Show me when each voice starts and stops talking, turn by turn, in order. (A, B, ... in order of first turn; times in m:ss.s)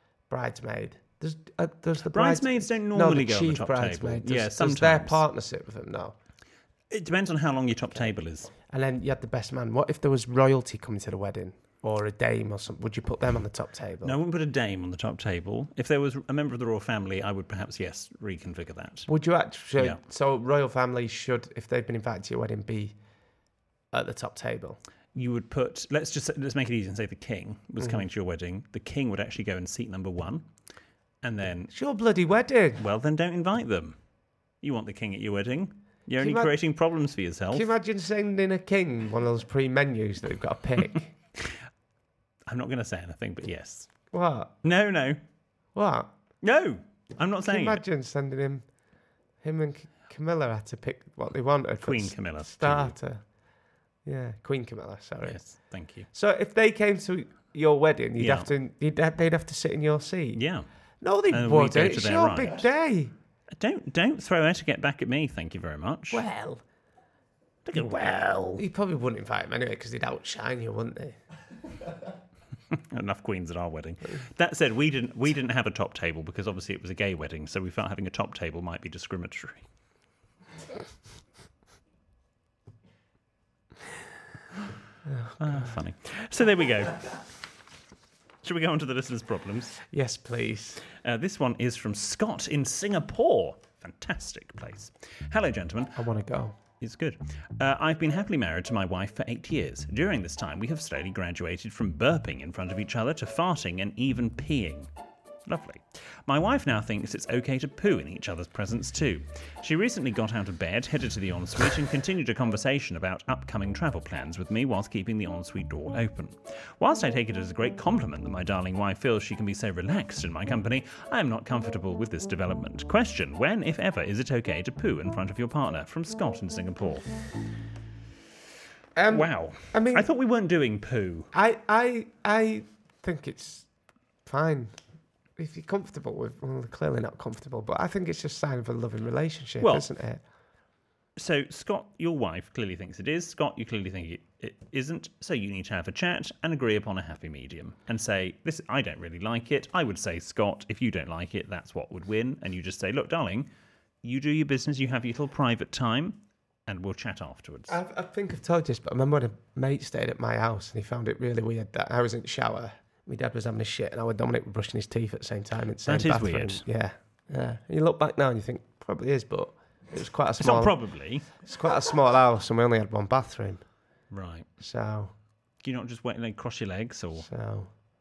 0:00.3-0:06.2 A
0:02.0-0:05.2 B
0:06.9-0:08.5 B
0:08.7-0:14.2 A
0:14.0-0:19.1 B
0:19.1-0:23.0 A
0:23.9-0:24.8 A
0:25.2-0:30.5 B
0:31.2-0:31.7 B
0:31.7-0:32.8 A
0:32.8-0:34.0 B
0:34.6-0:37.7 B
0:36.2-0:36.5 A
0:37.5-0:41.1 A
0:42.5-0:43.9 B
0:44.1-0:44.5 A
0:44.6-0:45.2 B
0:45.8-0:46.1 A
0:46.4-0:47.8 B
0:47.4-0:48.6 A
0:49.4-0:53.2 A
0:51.8-0:53.0 B
0:54.0-0:55.4 A
0:55.2-0:56.1 B
0:56.1-1:00.4 A
0:58.2-0:58.5 B
1:00.3-1:00.7 B
1:01.0-1:03.1 A
1:01.3-1:02.7 B
1:03.5-1:06.2 B
1:06.1-1:06.6 A
1:07.7-1:08.6 B
1:07.8-1:11.2 A
1:12.7-1:19.6 B
1:25.1-1:25.7 A
1:25.4-1:27.2 B
1:28.4-1:29.8 B
1:29.9-1:30.8 A
1:31.0-1:36.0 B
1:36.0-1:36.6 A
1:36.8-1:44.9 B
1:45.5-2:07.1 B
2:09.0-2:10.1 A
2:09.1-2:11.3 B
2:11.3-2:13.7 A
2:14.3-2:14.8 A
2:15.4-2:20.2 A
2:19.6-2:19.9 B
2:21.2-2:33.5 B
2:34.0-2:37.8 B
2:37.7-2:50.8 A
2:45.8-2:46.6 B
2:50.4-2:51.3 B
2:51.3-2:53.6 A
2:54.1-2:54.5 B
2:54.6-2:55.1 A
2:55.6-2:57.3 B
2:57.2-2:57.7 A